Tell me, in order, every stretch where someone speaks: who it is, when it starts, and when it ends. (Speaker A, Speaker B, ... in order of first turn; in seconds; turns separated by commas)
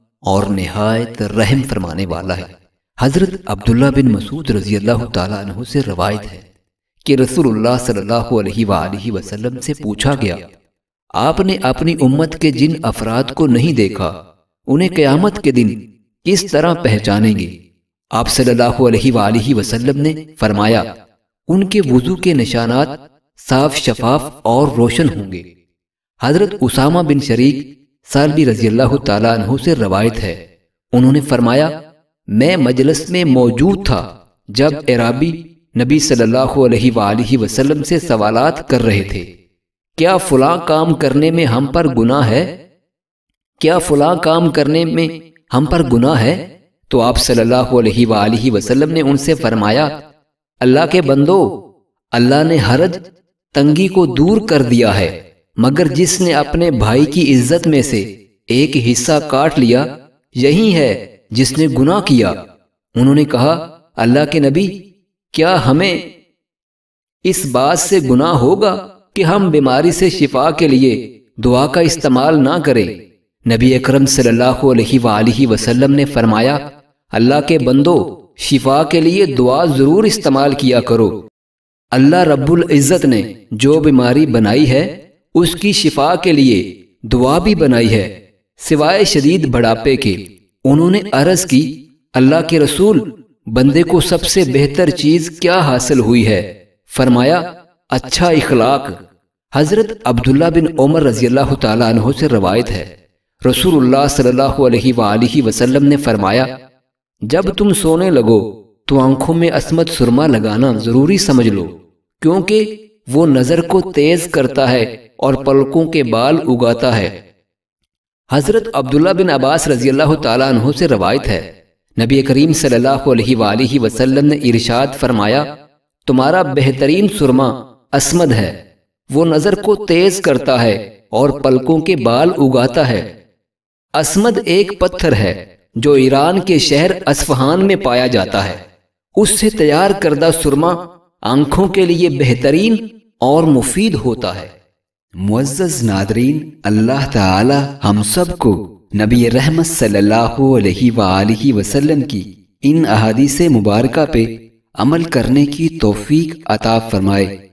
Speaker A: 0.2-2.5, Speaker A: 3.0-6.5, Speaker A: 7.0-10.5, Speaker A: 11.2-14.1, Speaker A: 14.7-17.5, Speaker A: 18.1-20.9, Speaker A: 21.5-25.4, Speaker A: 26.2-30.4, Speaker A: 30.9-31.7, Speaker A: 32.3-39.3, Speaker A: 40.0-42.5, Speaker A: 43.6-49.9, Speaker A: 50.6-51.4, Speaker A: 52.1-53.0, Speaker A: 53.5-59.9, Speaker A: 60.4-62.3, Speaker A: 63.0-64.7, Speaker A: 65.3-66.0, Speaker A: 67.2-72.9, Speaker A: 73.5-76.6, Speaker A: 77.1-81.1, Speaker A: 81.9-98.9, Speaker A: 99.5-102.9, Speaker A: 103.4-106.5, Speaker A: 107.3-117.1, Speaker A: 118.3-125.5, Speaker A: 126.0-128.5, Speaker A: 129.1-133.1, Speaker A: 133.9-138.6, Speaker A: 139.2-144.5, Speaker A: 145.2-157.3